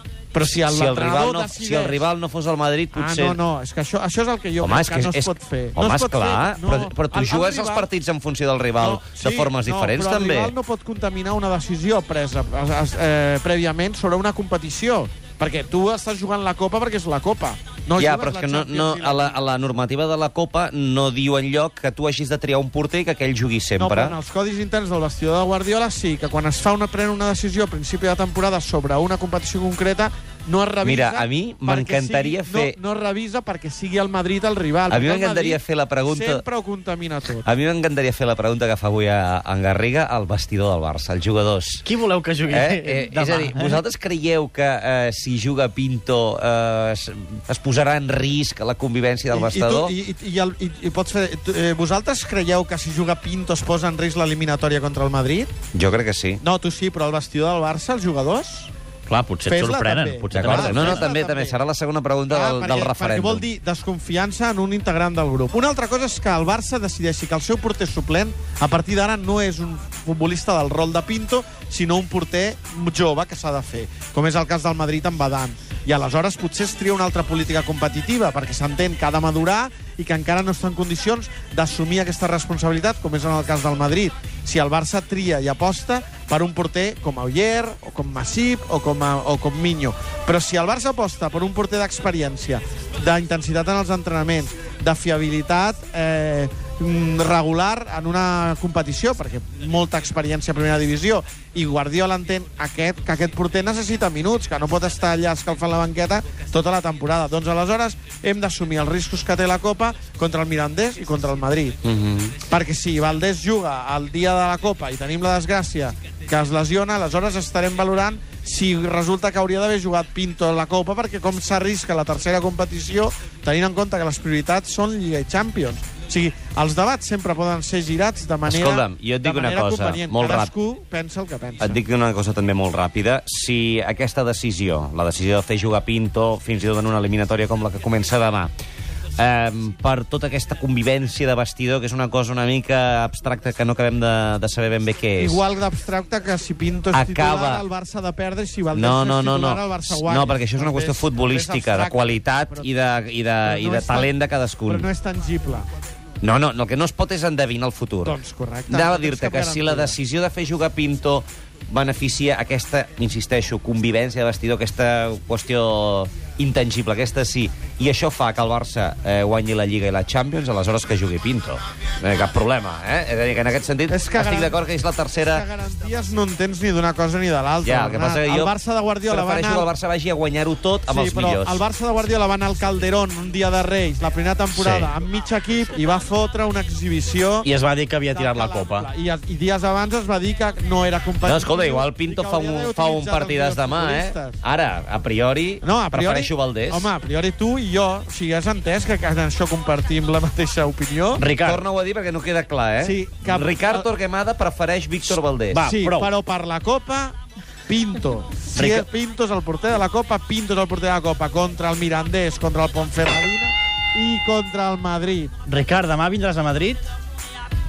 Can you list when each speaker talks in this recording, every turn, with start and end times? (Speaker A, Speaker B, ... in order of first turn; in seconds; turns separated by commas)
Speaker A: 0.3-2.0, Speaker B: 0.4-3.4, Speaker A: 2.9-7.9, Speaker B: 4.6-10.5, Speaker A: 8.8-19.4, Speaker B: 18.0-24.2, Speaker A: 23.8-37.5, Speaker B: 30.8-32.8, Speaker B: 34.9-36.4, Speaker B: 37.4-41.8, Speaker C: 41.8-43.8, Speaker B: 42.5-49.9, Speaker A: 49.3-55.5, Speaker B: 55.7-56.4, Speaker A: 56.4-58.7, Speaker C: 59.1-61.1, Speaker A: 59.5-61.6, Speaker B: 60.3-63.5, Speaker A: 62.3-111.8, Speaker B: 111.8-112.3, Speaker A: 112.5-131.8, Speaker B: 128.4-130.5, Speaker B: 131.6-138.5, Speaker B: 139.2-145.4, Speaker A: 145.2-152.7, Speaker B: 146.9-147.6, Speaker B: 148.7-154.9, Speaker A: 153.4-154.1, Speaker A: 154.6-155.7, Speaker B: 156.2-158.2, Speaker A: 158.0-160.0, Speaker B: 158.7-175.4, Speaker A: 173.9-174.6, Speaker A: 175.3-179.7, Speaker B: 177.6-178.5, Speaker B: 179.0-181.6, Speaker A: 180.9-187.5, Speaker B: 184.5-184.9, Speaker C: 187.4-188.9, Speaker A: 188.1-194.4, Speaker B: 191.2-196.9, Speaker A: 195.6-201.2, Speaker C: 201.2-201.6, Speaker B: 201.4-205.6, Speaker A: 202.8-203.9, Speaker C: 205.5-206.1, Speaker A: 205.6-207.2, Speaker A: 207.7-215.3, Speaker C: 208.5-208.9, Speaker C: 215.4-216.8